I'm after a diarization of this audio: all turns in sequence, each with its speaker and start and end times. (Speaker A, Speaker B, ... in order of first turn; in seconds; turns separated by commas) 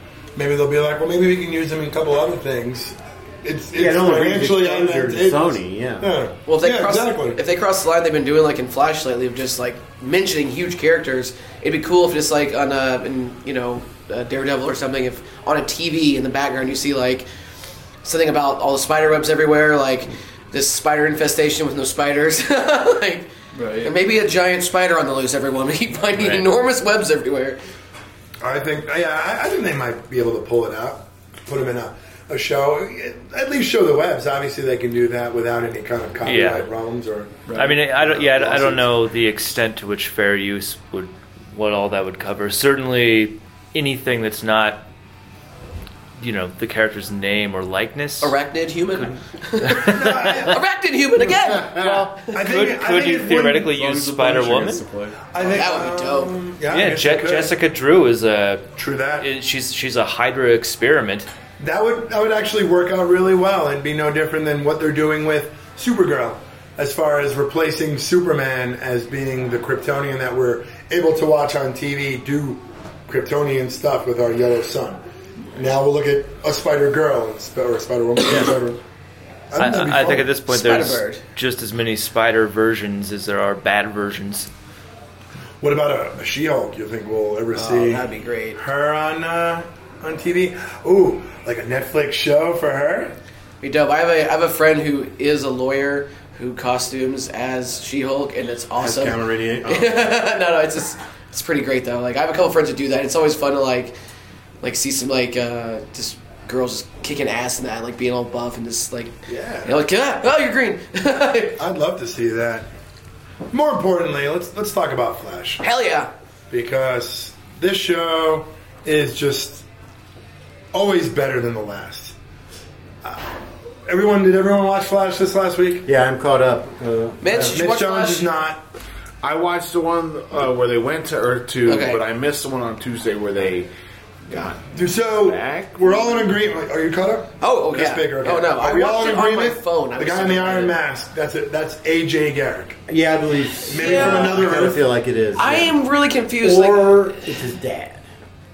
Speaker A: 0.3-7.4, Speaker B: 3.7-6.1, Speaker C: 6.5-17.3, Speaker C: 18.0-23.3, Speaker D: 23.5-23.9, Speaker C: 23.8-27.6, Speaker D: 26.2-26.4, Speaker A: 28.4-38.9, Speaker E: 36.2-36.7, Speaker D: 37.5-37.8, Speaker E: 37.5-44.9, Speaker E: 46.2-48.3, Speaker C: 48.2-51.9, Speaker E: 48.9-50.5, Speaker A: 49.7-50.6, Speaker F: 51.5-52.0, Speaker E: 51.8-54.8, Speaker A: 52.3-53.7, Speaker D: 53.7-55.3, Speaker A: 55.3-57.5, Speaker C: 55.4-56.4, Speaker E: 56.7-61.3, Speaker A: 58.8-59.3, Speaker A: 61.6-75.0, Speaker A: 75.5-78.8, Speaker A: 79.5-80.4, Speaker E: 79.6-84.5, Speaker C: 80.5-81.2, Speaker A: 85.6-93.2, Speaker C: 87.5-88.6, Speaker C: 93.6-104.0, Speaker B: 98.8-100.2, Speaker C: 104.6-111.6, Speaker A: 109.3-109.8, Speaker A: 111.6-112.7, Speaker A: 113.5-115.6, Speaker C: 115.6-116.1, Speaker A: 116.5-119.6, Speaker A: 120.7-122.1, Speaker A: 123.0-123.3, Speaker A: 123.9-125.9, Speaker B: 125.8-127.6, Speaker C: 127.2-128.3, Speaker A: 127.3-128.7, Speaker F: 129.2-133.7, Speaker C: 131.6-132.0, Speaker F: 134.3-134.7, Speaker A: 134.7-142.8, Speaker F: 135.2-136.3, Speaker C: 137.4-140.7, Speaker B: 142.9-145.8, Speaker A: 143.7-144.8, Speaker C: 143.7-144.5, Speaker C: 145.3-147.1, Speaker B: 146.4-148.0